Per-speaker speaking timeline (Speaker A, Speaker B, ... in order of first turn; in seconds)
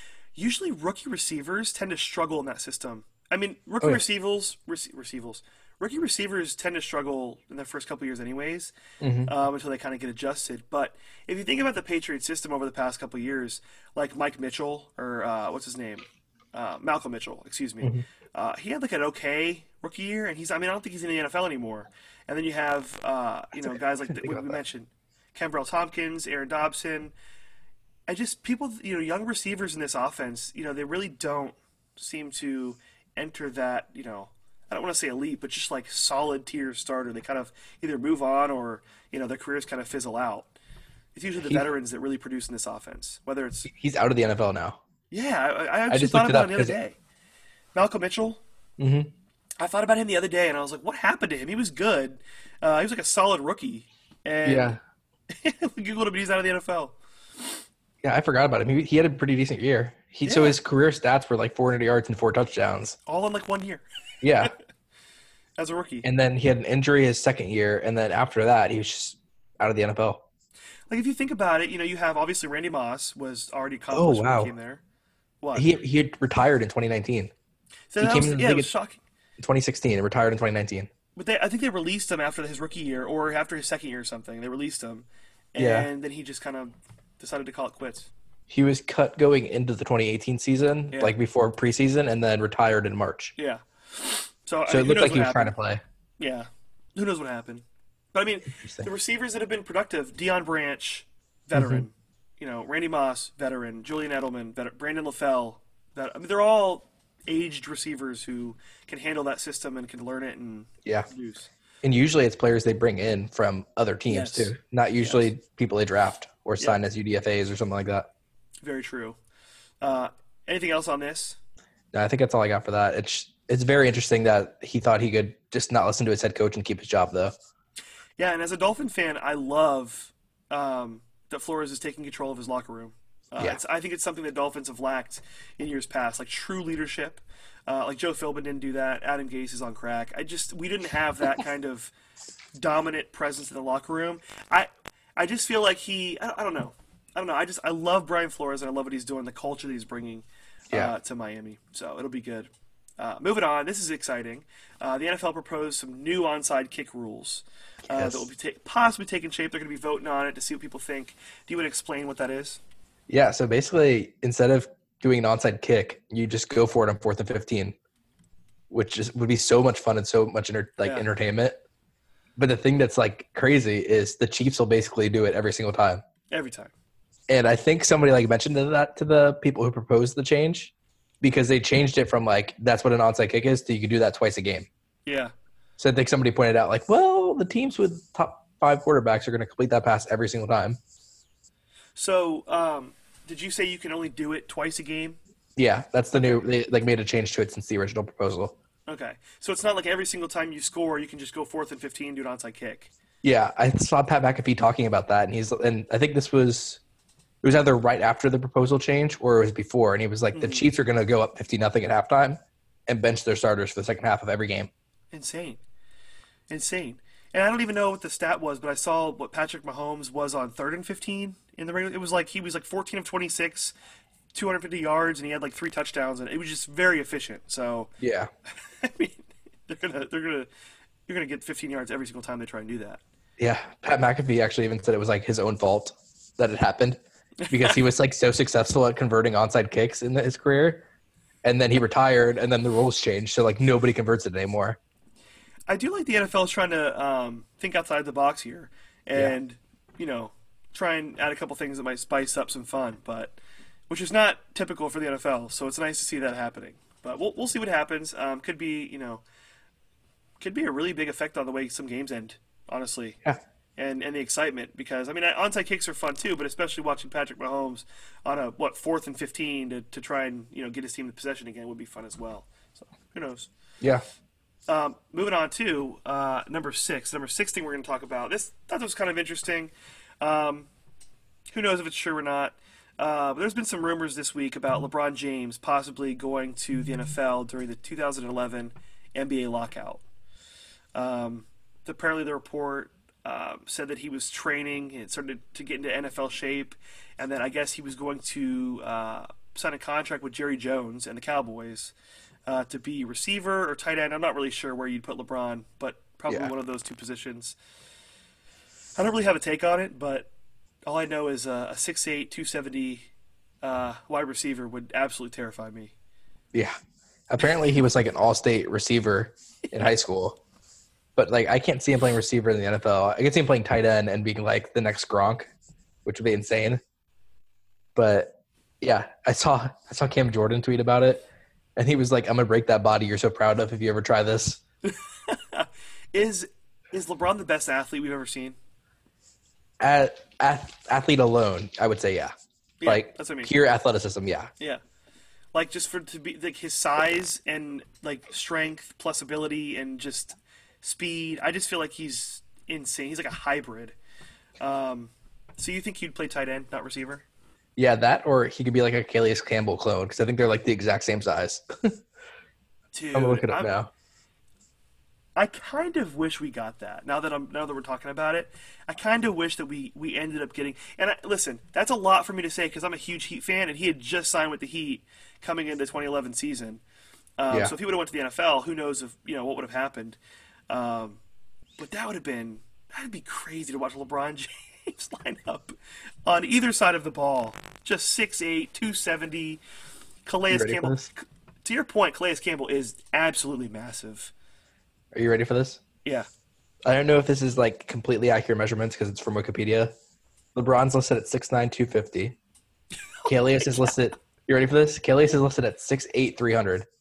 Speaker A: 0.3-8.7, 9.2-27.1, 28.1-40.5, 41.1-43.7, 45.1-47.0, 47.7-48.4, 49.6-54.8, 55.3-57.0, 60.2-60.6, 63.0-63.8, 65.6-66.1, 70.9-74.8, 75.4-75.7, 77.9-79.0, 81.2-88.1, 93.3-95.5, 96.2-111.5, 114.1-115.3, 118.6-119.2, 119.8-121.4, 128.2-141.9, 142.6-162.6, 176.3-176.7, 185.1-185.3, 191.9-195.2, 196.1-196.4, 198.9-202.9, 210.3-210.7, 215.1-215.6, 216.5-223.7, 224.3-227.9, 228.8-230.5, 231.1-233.0, 237.4-237.8, 245.7-253.3, 253.9-259.2, 260.4-263.2, 263.8-273.5, 274.7-280.7, 281.5-290.0, 290.9-301.9, 302.5-307.6, 308.9-310.3, 310.9-313.1, 313.6-315.9, 334.8-338.6, 342.8-343.5, 345.5-353.9, 354.6-357.2, 362.9-363.7, 365.4-376.8, 377.4-380.2, 380.7-381.2, 381.8-385.7, 386.2-389.6, 390.2-394.3, 403.2-403.9
Speaker B: 9.0-9.3, 23.6-24.6, 43.6-44.8, 45.9-46.7, 48.8-49.1, 54.4-54.8, 58.0-63.0, 64.2-64.5, 66.0-70.2, 73.9-74.5, 75.5-77.3, 78.0-78.7, 79.4-80.9, 85.6-85.9, 88.5-93.3, 94.7-95.8, 98.5-98.9, 101.5-101.8, 111.8-118.1, 121.9-127.3, 157.9-158.3, 163.1-167.8, 168.7-171.6, 172.4-176.0, 177.3-184.7, 185.8-190.8, 195.6-198.6, 203.2-206.8, 207.4-214.7, 228.0-228.3, 233.4-240.8, 241.4-244.8, 317.3-320.4, 321.1-325.5, 326.0-326.8, 327.9-334.6, 339.8-342.3, 342.9-344.5, 357.8-362.0, 363.1-363.9, 390.5-391.1, 395.1-395.8, 396.9-399.9, 400.5-402.4, 403.2-406.9